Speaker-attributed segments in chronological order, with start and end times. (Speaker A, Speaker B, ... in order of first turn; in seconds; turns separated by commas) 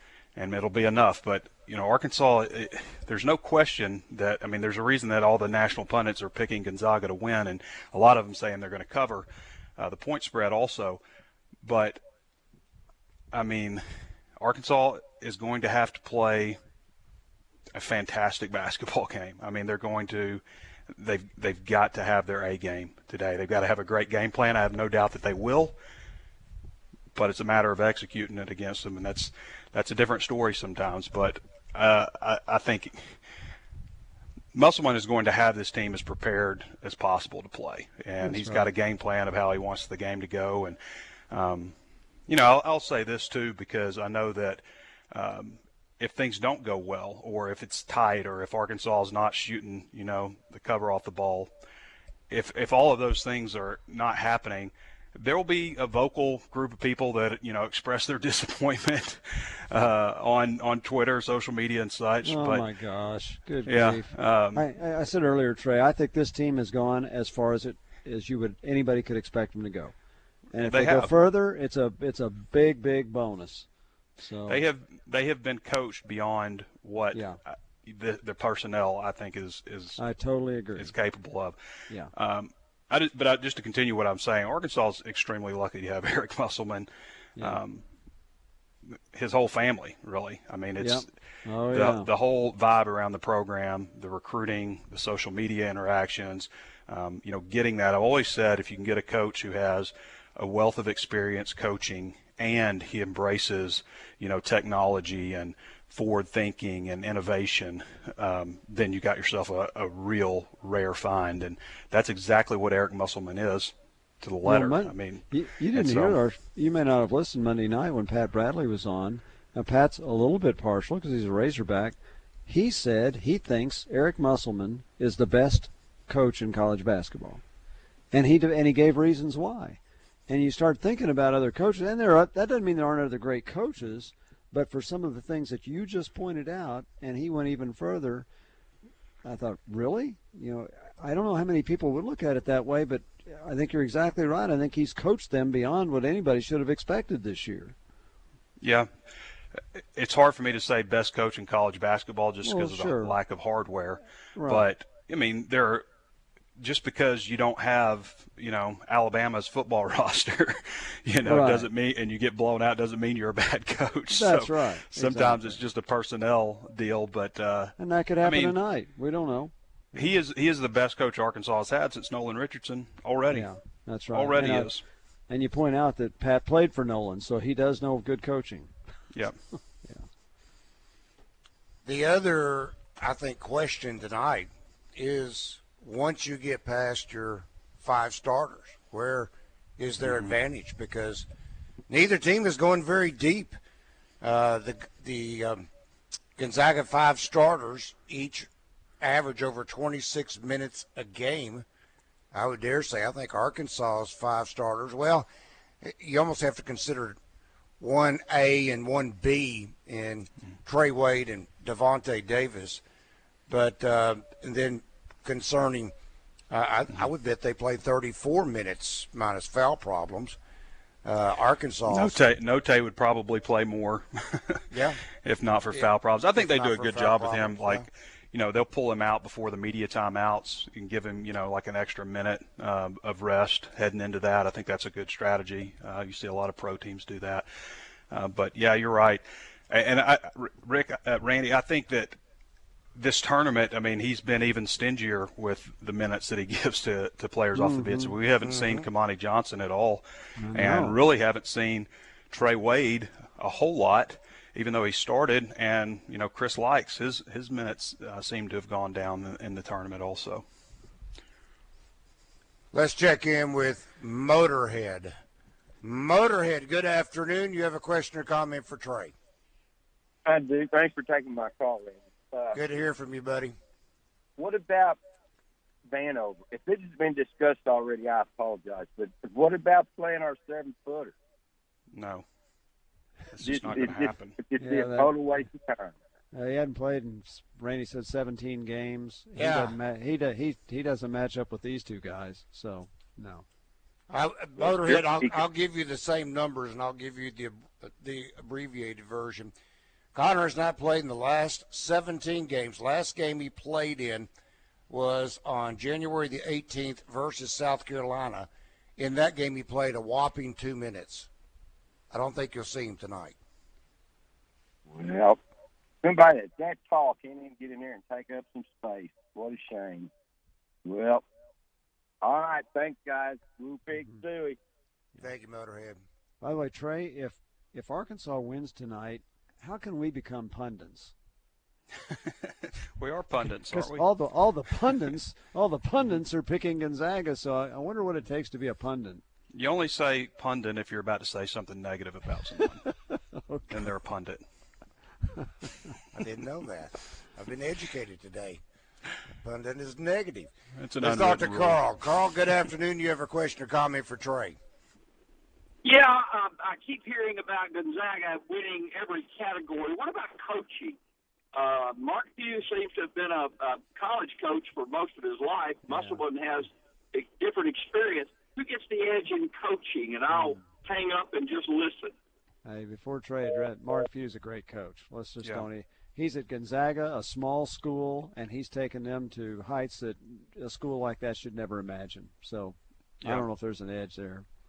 Speaker A: 0.3-11.0, Speaker A: 11.6-12.0, Speaker A: 13.3-13.8, Speaker A: 14.4-16.6, Speaker A: 17.7-20.4, Speaker A: 20.9-25.8, Speaker A: 27.1-33.2, Speaker A: 34.5-40.8, Speaker B: 38.2-38.7, Speaker A: 41.3-41.7, Speaker A: 42.3-51.5, Speaker A: 52.3-62.6, Speaker B: 62.2-69.9, Speaker A: 63.6-64.6, Speaker B: 70.5-73.7, Speaker A: 70.6-71.1, Speaker B: 74.2-74.6, Speaker A: 74.5-80.0, Speaker B: 77.1-77.4, Speaker B: 80.0-80.9, Speaker A: 80.8-81.6, Speaker A: 82.1-87.8, Speaker A: 89.1-91.1, Speaker B: 90.8-92.1, Speaker A: 91.7-116.2, Speaker B: 114.4-127.4, Speaker B: 128.1-138.2, Speaker B: 139.2-147.7, Speaker A: 148.6-148.9, Speaker A: 149.8-155.8, Speaker B: 152.4-153.2, Speaker B: 154.3-154.7, Speaker A: 156.6-168.6, Speaker B: 161.2-161.7, Speaker B: 164.1-165.6, Speaker B: 167.8-170.1, Speaker A: 169.9-173.5, Speaker B: 173.3-174.7, Speaker A: 174.1-174.8, Speaker B: 175.3-178.7, Speaker C: 181.8-191.2, Speaker A: 190.0-190.3, Speaker C: 191.9-193.5, Speaker C: 194.2-195.7, Speaker C: 196.4-198.5, Speaker C: 199.0-201.6, Speaker C: 202.3-205.3, Speaker C: 205.8-207.2, Speaker C: 207.8-212.8, Speaker C: 213.5-215.9, Speaker C: 216.5-220.3, Speaker C: 221.1-222.2, Speaker A: 221.9-224.6, Speaker C: 224.7-225.0, Speaker A: 225.2-237.4, Speaker C: 225.7-227.9, Speaker A: 238.1-242.2, Speaker A: 242.9-260.4, Speaker B: 247.5-248.1, Speaker C: 248.4-248.8, Speaker B: 250.4-251.0, Speaker C: 262.7-265.1, Speaker C: 265.8-269.1, Speaker D: 270.2-272.6, Speaker C: 272.5-273.6, Speaker D: 274.4-275.0, Speaker D: 275.9-281.1, Speaker A: 281.9-282.2, Speaker A: 283.3-284.4, Speaker D: 283.4-285.9, Speaker B: 284.6-285.1, Speaker B: 286.3-293.4, Speaker C: 289.4-289.8, Speaker C: 294.1-299.5, Speaker D: 294.6-295.4, Speaker C: 300.1-304.3, Speaker C: 304.9-311.3, Speaker C: 312.1-313.3, Speaker D: 314.9-315.4, Speaker D: 316.0-320.1, Speaker D: 320.8-321.2, Speaker D: 322.2-324.6, Speaker C: 325.2-326.0, Speaker B: 326.4-331.1, Speaker A: 332.1-334.1, Speaker B: 333.5-339.2, Speaker A: 339.5-342.9, Speaker B: 342.9-343.8, Speaker A: 343.7-344.4, Speaker C: 346.1-348.6, Speaker C: 349.4-354.6, Speaker A: 350.7-351.8, Speaker E: 355.9-360.9, Speaker E: 361.6-366.6, Speaker B: 365.9-366.2, Speaker E: 367.1-372.1, Speaker B: 372.6-384.4